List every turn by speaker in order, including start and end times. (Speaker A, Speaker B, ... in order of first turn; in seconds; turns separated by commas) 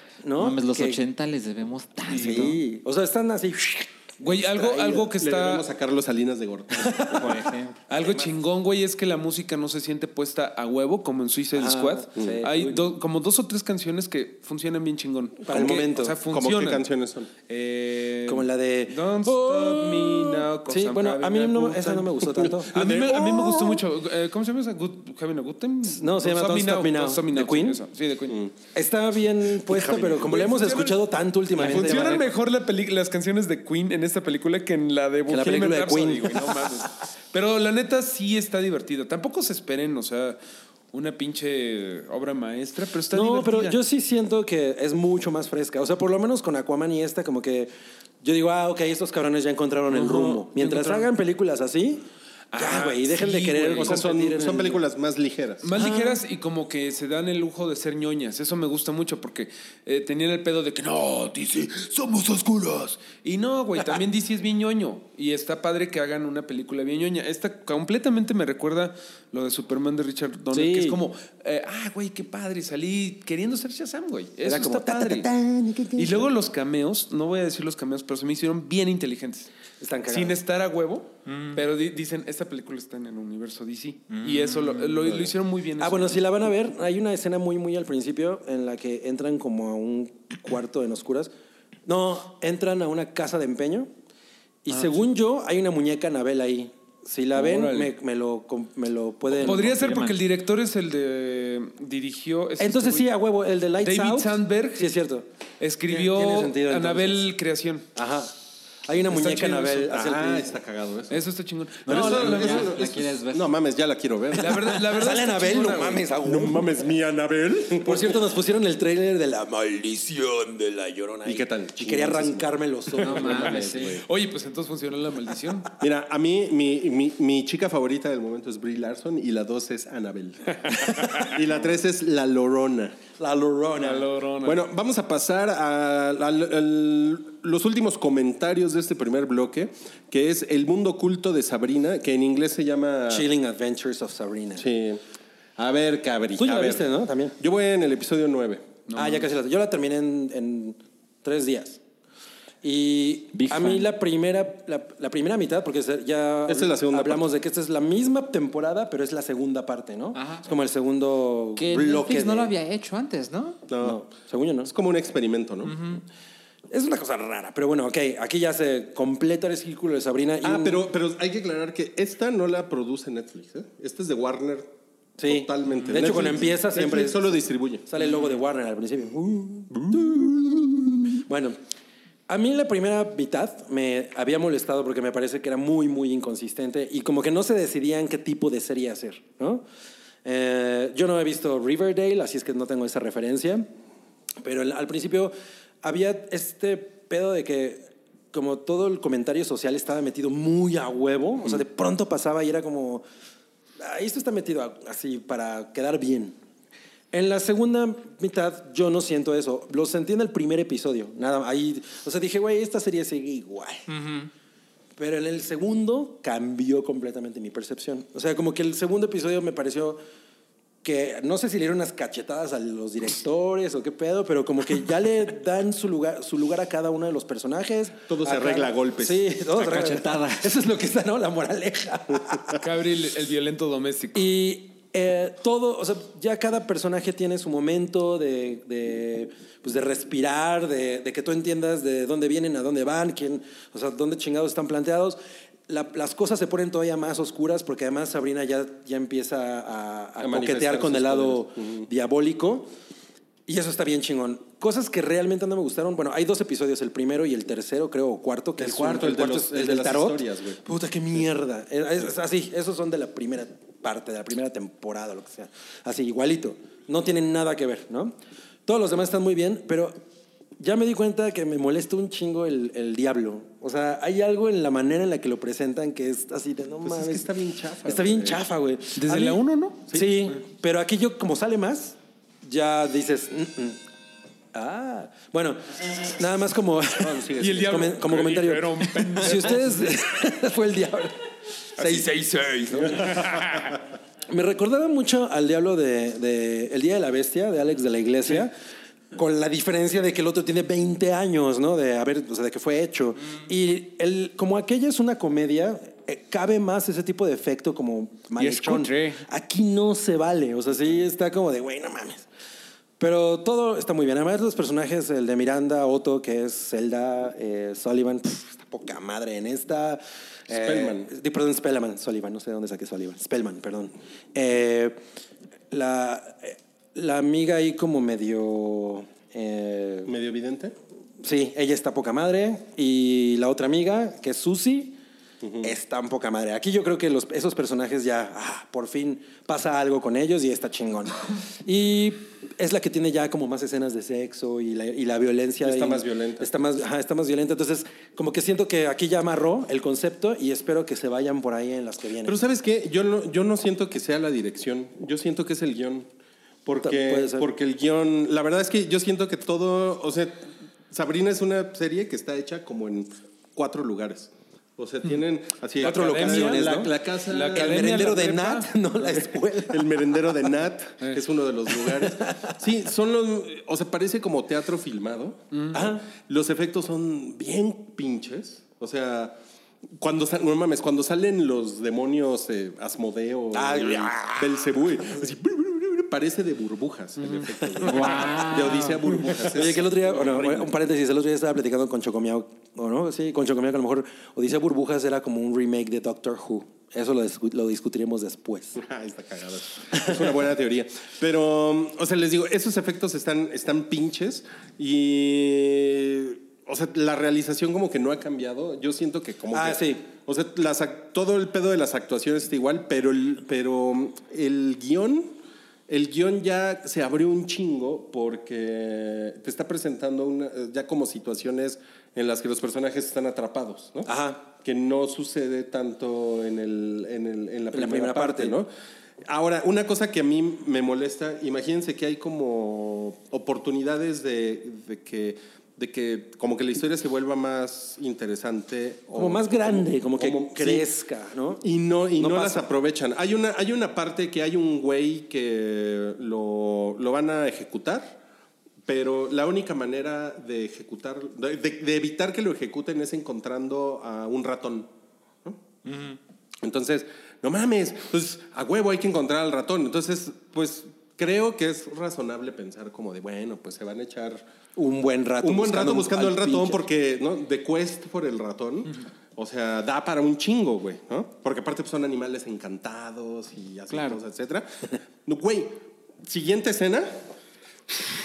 Speaker A: 0.2-1.0, Speaker B: 0.4-2.6, Speaker A: 2.1-5.1, Speaker C: 4.2-5.7, Speaker D: 5.1-7.3, Speaker A: 6.7-7.5, Speaker B: 7.1-7.8, Speaker C: 7.9-16.8, Speaker A: 11.5-12.9, Speaker A: 15.4-16.2, Speaker D: 15.5-17.3, Speaker C: 17.5-28.4, Speaker A: 18.3-22.7, Speaker D: 22.5-23.8, Speaker A: 25.8-27.8, Speaker A: 28.7-32.3, Speaker D: 29.8-30.2, Speaker C: 29.8-31.0, Speaker C: 31.5-40.4, Speaker A: 35.3-36.8, Speaker C: 40.9-43.8, Speaker A: 43.1-47.7, Speaker A: 48.2-54.8, Speaker C: 49.9-51.1, Speaker C: 52.5-54.0, Speaker D: 53.8-55.6, Speaker C: 55.6-75.3, Speaker A: 55.8-56.2, Speaker A: 70.5-71.0, Speaker A: 74.4-76.3, Speaker C: 75.9-79.5, Speaker A: 79.8-80.4, Speaker C: 80.1-86.2, Speaker B: 81.3-81.6, Speaker B: 84.1-85.0, Speaker A: 85.8-91.3, Speaker A: 91.8-93.9, Speaker A: 94.6-99.8, Speaker C: 97.3-97.9, Speaker C: 99.3-103.1, Speaker B: 99.4-100.2, Speaker A: 102.6-105.2, Speaker C: 103.8-104.9, Speaker C: 105.6-107.9, Speaker A: 105.9-107.3, Speaker A: 107.9-108.3, Speaker A: 108.8-110.5, Speaker C: 109.1-109.8, Speaker D: 109.8-111.2, Speaker C: 111.1-112.9, Speaker B: 111.9-113.5, Speaker D: 111.9-114.8, Speaker C: 114.3-116.0, Speaker A: 114.4-116.8, Speaker D: 116.2-118.1, Speaker A: 117.8-123.8, Speaker D: 121.2-122.5, Speaker C: 123.0-125.7, Speaker B: 123.0-124.0, Speaker D: 123.0-124.0, Speaker D: 125.8-133.0, Speaker A: 133.2-134.1, Speaker C: 133.7-134.6, Speaker D: 134.4-143.3, Speaker A: 143.1-144.7, Speaker D: 144.6-145.0, Speaker D: 145.6-146.8, Speaker A: 146.4-147.3, Speaker D: 147.4-148.7, Speaker C: 148.9-149.2, Speaker A: 148.9-151.8, Speaker A: 152.6-162.5, Speaker B: 153.3-153.9, Speaker D: 156.5-157.2, Speaker B: 160.1-160.4, Speaker B: 161.6-163.6, Speaker D: 163.7-164.0, Speaker A: 163.8-164.7, Speaker D: 164.6-165.8, Speaker B: 165.6-166.0, Speaker A: 166.7-170.9, Speaker D: 170.4-174.7, Speaker A: 175.2-181.6, Speaker D: 175.2-177.8, Speaker A: 182.3-189.6, Speaker A: 190.2-193.7, Speaker A: 194.4-203.0, Speaker A: 203.8-206.3, Speaker A: 207.1-214.0, Speaker B: 213.9-214.2, Speaker A: 215.0-220.0, Speaker A: 220.8-232.6, Speaker D: 228.1-229.2, Speaker B: 229.6-230.5, Speaker C: 232.6-234.3, Speaker A: 234.1-252.7, Speaker D: 250.2-251.9, Speaker A: 253.5-268.1, Speaker D: 258.6-260.6, Speaker A: 268.6-270.0, Speaker A: 270.6-277.3, Speaker D: 276.8-278.4, Speaker A: 277.8-283.8, Speaker C: 278.9-279.9, Speaker A: 284.5-291.2, Speaker D: 287.0-287.5, Speaker C: 287.4-290.0, Speaker A: 291.8-293.5, Speaker C: 291.8-292.1, Speaker C: 293.0-293.8, Speaker A: 294.3-298.5, Speaker A: 299.1-312.2, Speaker C: 308.4-309.2, Speaker A: 313.0-325.0, Speaker D: 320.5-321.1, Speaker A: 325.7-330.1, Speaker D: 330.1-330.8, Speaker A: 331.2-335.0, Speaker D: 335.4-335.7, Speaker A: 335.6-352.4, Speaker D: 345.6-346.5, Speaker D: 352.2-356.1, Speaker D: 356.6-368.1, Speaker A: 356.8-357.5, Speaker A: 365.8-366.9, Speaker C: 365.8-368.7, Speaker A: 367.5-370.4, Speaker D: 369.6-375.4, Speaker A: 371.7-372.6, Speaker C: 375.5-375.8, Speaker A: 375.7-376.1, Speaker D: 376.1-379.4, Speaker D: 380.0-390.7, Speaker A: 383.5-384.8, Speaker C: 387.2-387.5, Speaker A: 387.8-388.5, Speaker B: 387.8-389.1, Speaker A: 389.4-398.8, Speaker D: 398.8-415.3, Speaker A: 399.9-400.3, Speaker A: 409.5-410.0, Speaker D: 415.9-428.7, Speaker A: 424.1-424.4, Speaker A: 427.7-428.6, Speaker D: 429.2-440.9, Speaker A: 439.1-441.6, Speaker D: 441.6-448.2, Speaker A: 442.1-442.7, Speaker D: 448.8-454.9, Speaker B: 455.9-456.2, Speaker D: 456.6-464.4, Speaker A: 464.8-466.8, Speaker D: 465.4-477.1, Speaker B: 473.9-474.2